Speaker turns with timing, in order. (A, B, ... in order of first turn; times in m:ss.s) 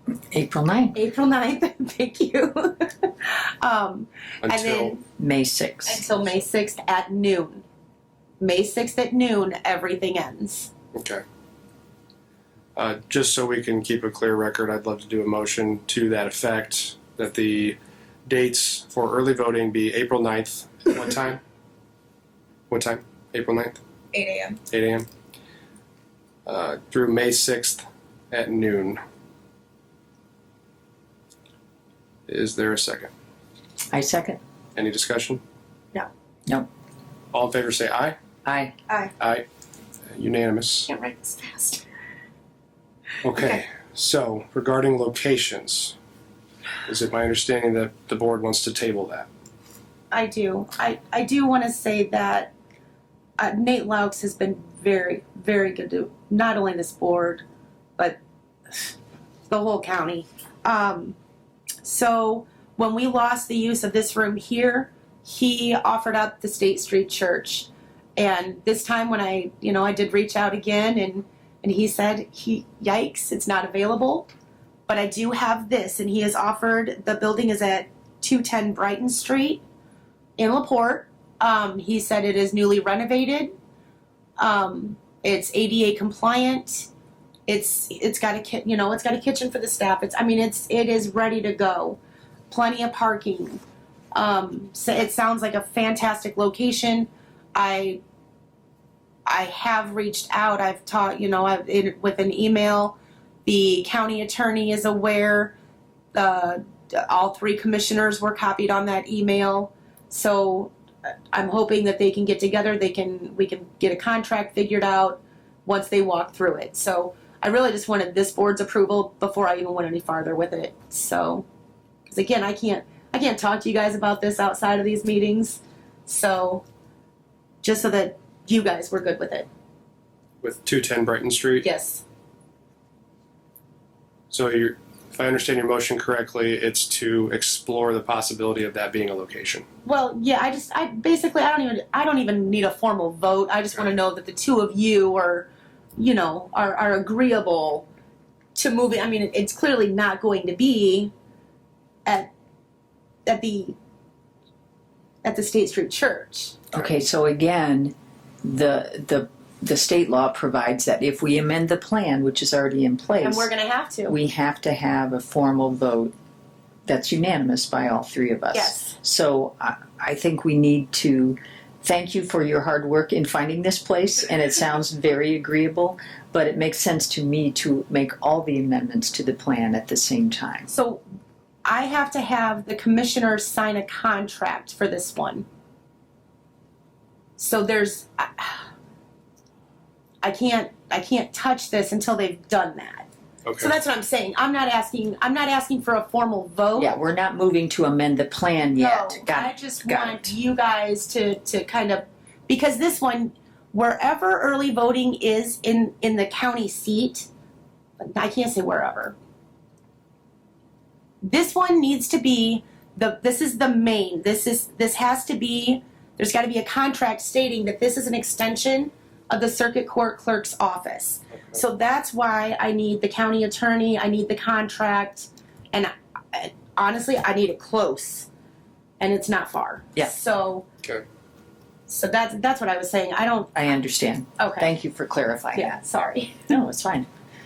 0:00.3-0:01.0 A
0:00.9-0:05.0 B
0:04.4-0:05.0 C
0:05.2-0:06.1 A
0:05.9-0:07.6 B
0:08.4-0:10.7 B
0:10.9-0:11.2 C
0:12.8-0:21.4 C
0:22.7-0:23.8 C
0:24.1-0:24.6 B
0:24.7-0:25.1 C
0:26.5-0:29.0 C
0:32.3-0:33.1 C
0:33.9-0:34.4 A
0:34.8-0:35.4 C
0:37.3-0:38.2 C
0:38.4-0:38.7 A
0:39.2-0:39.4 C
0:40.1-0:40.9 C
0:40.9-0:41.8 B
0:43.2-0:46.0 C
0:46.9-0:49.3 C
0:50.1-0:52.5 B
0:53.4-0:57.4 B
0:59.5-1:01.2 B
1:01.8-1:14.3 B
1:14.9-1:19.6 B
1:20.4-1:23.5 B
1:24.4-1:26.9 B
1:27.5-1:33.6 B
1:34.1-1:38.0 B
1:39.3-1:45.6 B
1:46.1-1:50.7 B
1:51.3-2:01.4 B
2:02.1-2:06.6 B
2:07.6-2:09.5 B
2:10.4-2:11.7 C
2:11.6-2:12.0 B
2:14.3-2:19.6 C
2:19.8-2:27.9 B
2:28.6-2:31.1 B
2:32.0-2:32.3 B
2:33.3-2:33.8 B
2:35.2-2:36.6 B
2:36.7-2:43.5 A
2:43.2-2:44.2 B
2:44.1-2:46.1 A
2:46.9-3:00.7 A
2:48.5-2:49.0 B
3:00.7-3:01.0 B
3:01.6-3:05.4 B
3:07.4-3:08.7 B
3:10.2-3:13.1 B
3:13.4-3:13.8 C
3:13.6-3:17.0 B
3:16.8-3:20.3 A
3:18.8-3:27.3 B
3:28.0-3:29.2 B
3:31.2-3:48.3 B
3:41.3-3:41.6 C
3:49.0-3:50.7 B
3:51.9-3:53.6 B
3:53.6-3:55.8 A
3:54.4-3:54.7 B
3:55.5-3:56.5 B
3:56.5-3:57.1 A